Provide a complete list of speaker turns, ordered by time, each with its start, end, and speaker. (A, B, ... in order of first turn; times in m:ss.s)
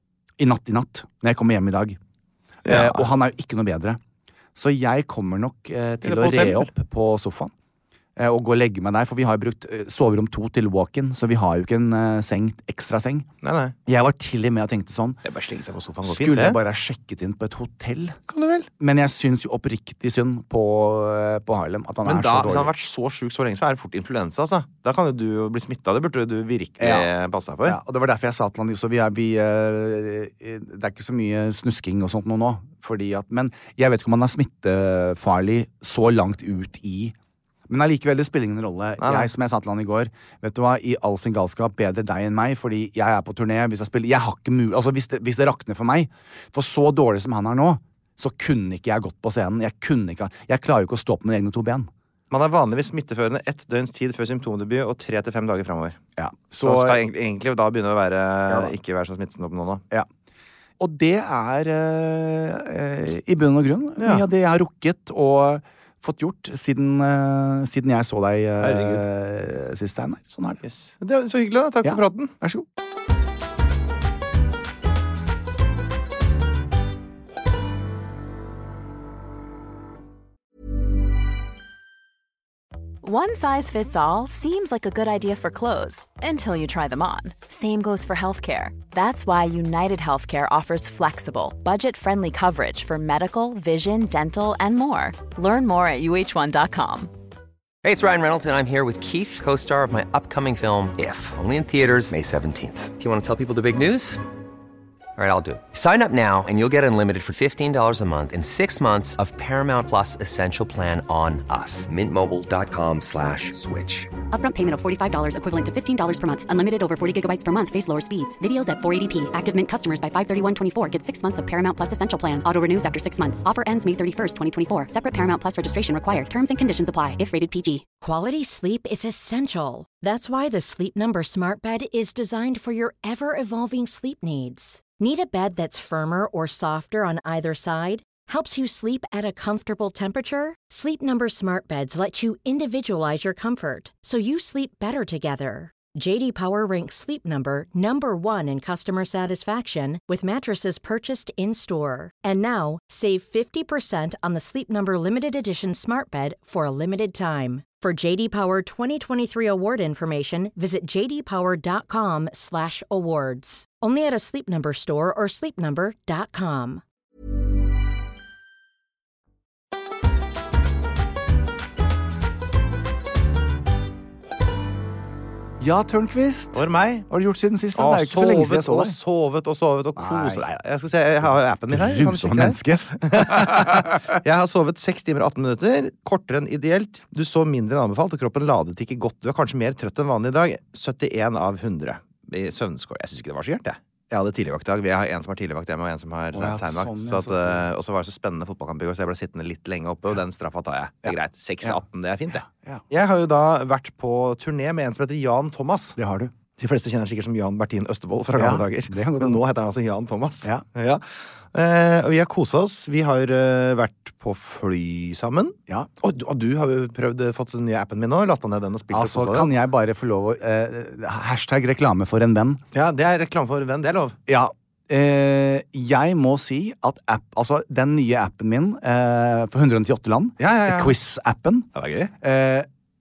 0:00.4-0:02.0 A
0:02.6-0:03.1 B
0:02.6-0:04.0 A
0:04.6-0:07.5 A
0:06.0-0:06.7 B
0:08.2-0:13.3 A
0:13.4-0:13.8 B
0:13.9-0:15.2 A
0:15.2-0:16.6 B
0:16.0-0:18.2 A
0:18.3-0:18.7 B
0:18.8-0:22.7 A
0:22.0-0:27.8 B
0:26.8-0:27.1 A
0:27.6-0:37.2 A
0:37.7-0:51.9 A
0:39.0-0:39.3 B
0:52.3-0:56.0 B
0:56.2-0:57.0 A
0:56.6-0:59.8 B
1:00.8-1:10.6 A
1:04.0-1:04.2 B
1:08.6-1:09.0 B
1:10.6-1:12.3 B
1:11.8-1:12.7 A
1:23.0-1:37.1 C
1:37.8-1:44.2 D
1:45.2-1:54.1 D
1:54.3-2:07.8 E
2:08.0-2:46.8 F
2:55.6-2:59.0 A
2:56.5-2:57.1 B
2:57.8-3:26.0 B
3:00.0-3:00.4 A
3:01.7-3:04.0 A
3:16.3-3:17.7 A
3:21.1-3:21.8 A
3:22.4-3:22.8 A
3:26.0-3:26.3 A
3:26.6-3:39.5 B
3:28.4-3:29.4 A
3:38.9-3:42.6 A
3:42.7-3:44.2 B
3:44.3-3:51.7 A
3:50.4-3:50.9 B
3:51.8-3:52.1 B
3:52.2-3:52.7 A